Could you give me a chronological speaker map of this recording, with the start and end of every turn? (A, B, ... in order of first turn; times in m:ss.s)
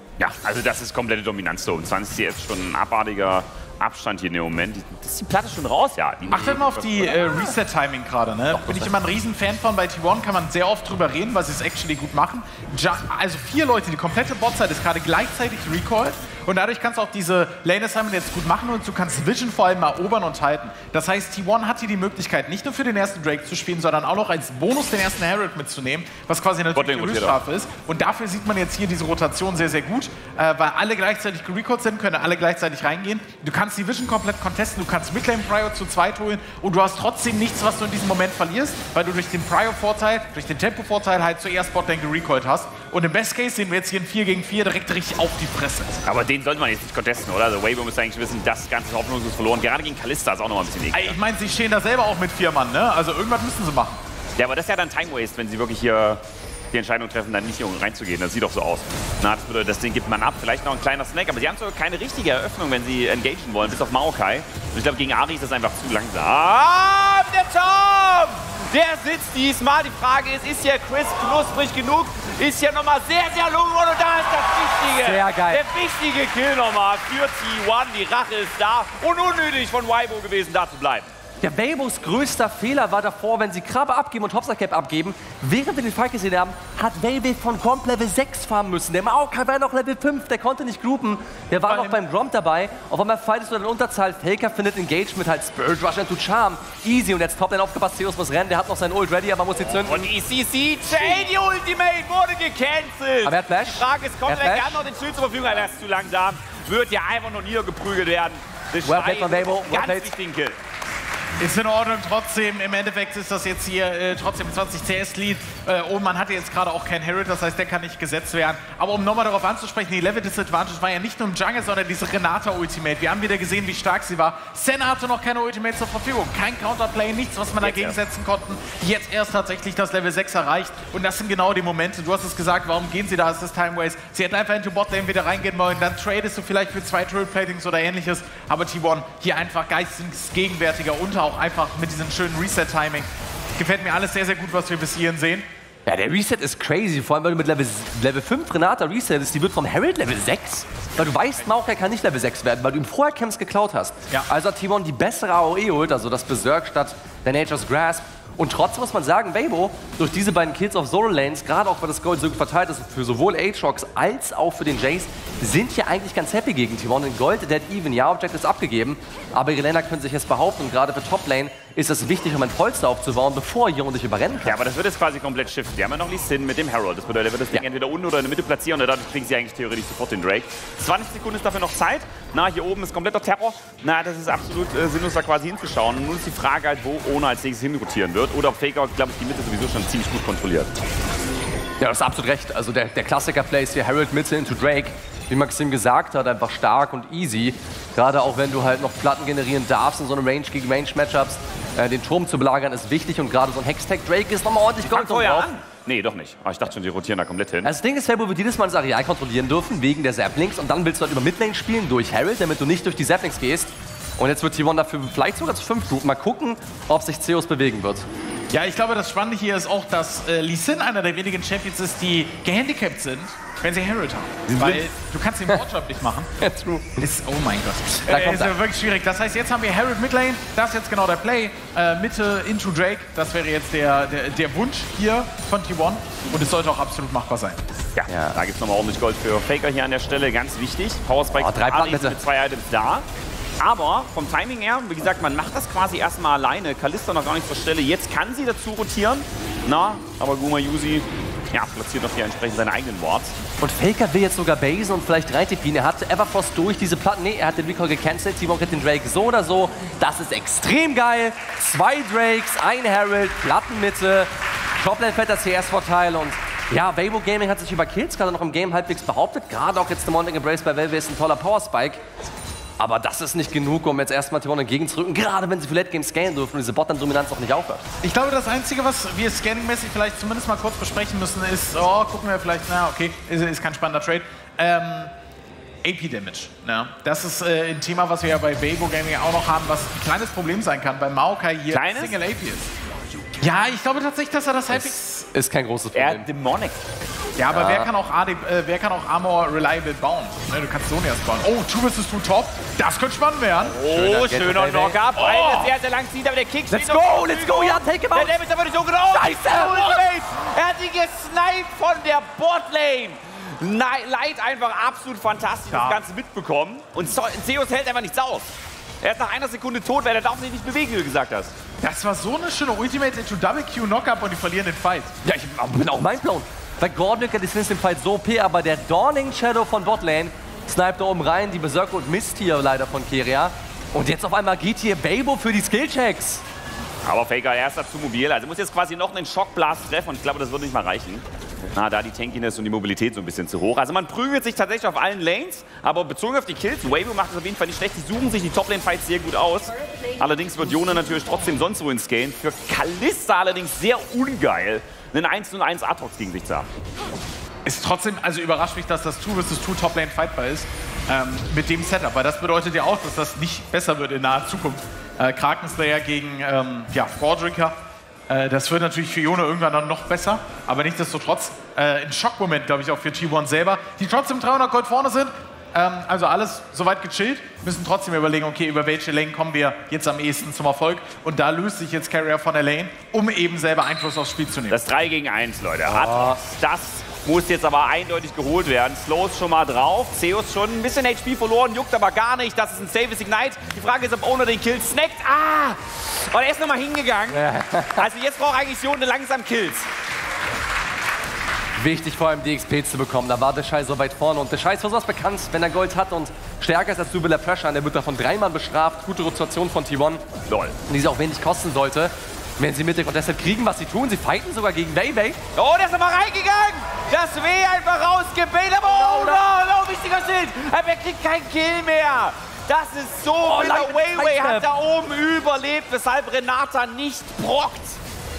0:00.2-0:07.2 A
0:06.3-0:46.0 B
0:08.6-0:08.9 A
0:26.8-0:27.4 A
0:46.1-0:51.2 A
0:50.9-0:54.0 B
0:54.4-0:56.2 A
0:56.7-1:21.1 A
1:15.0-1:15.6 C
1:21.4-1:40.1 C
1:31.7-1:32.0 B
1:39.8-1:50.6 A
1:43.2-1:44.8 C
1:48.8-1:50.1 C
1:51.4-2:25.4 B
2:07.6-2:08.0 A
2:25.9-2:54.6 C
2:54.5-3:10.8 A
3:11.8-3:25.5 C
3:24.8-3:27.7 A
3:27.6-3:38.1 C
3:38.5-3:46.3 B
3:44.5-3:44.9 C
3:46.4-3:47.0 C
3:47.0-3:57.6 B
3:48.1-3:48.5 C
3:58.0-4:03.0 A
3:58.1-3:58.4 C
4:01.4-4:02.2 C
4:03.6-4:13.4 A
4:13.6-4:32.0 C
4:32.8-4:37.8 C
4:38.0-4:45.1 B
4:45.8-4:52.7 B
4:51.7-4:52.2 A
4:53.4-4:55.3 B
4:54.7-4:56.3 C
4:56.0-4:56.8 A
4:57.4-5:03.8 B
4:57.5-4:57.9 C
5:03.6-5:18.5 A
5:03.8-5:05.0 C
5:05.2-5:05.7 B
5:06.7-5:08.4 C
5:09.1-5:10.0 C
5:15.7-5:16.0 B
5:19.0-5:21.6 A
5:21.8-5:25.1 B
5:25.2-5:36.4 C
5:37.0-5:56.7 A
5:57.6-6:07.8 B
6:08.3-6:24.8 B
6:24.7-6:37.4 A
6:25.9-6:26.4 C
6:37.3-6:38.0 C
6:38.0-6:39.9 A
6:41.8-6:50.2 C
6:50.5-6:50.8 A
6:50.9-6:55.4 C
6:55.6-7:08.0 A
6:58.8-6:59.4 C
7:03.4-7:04.7 C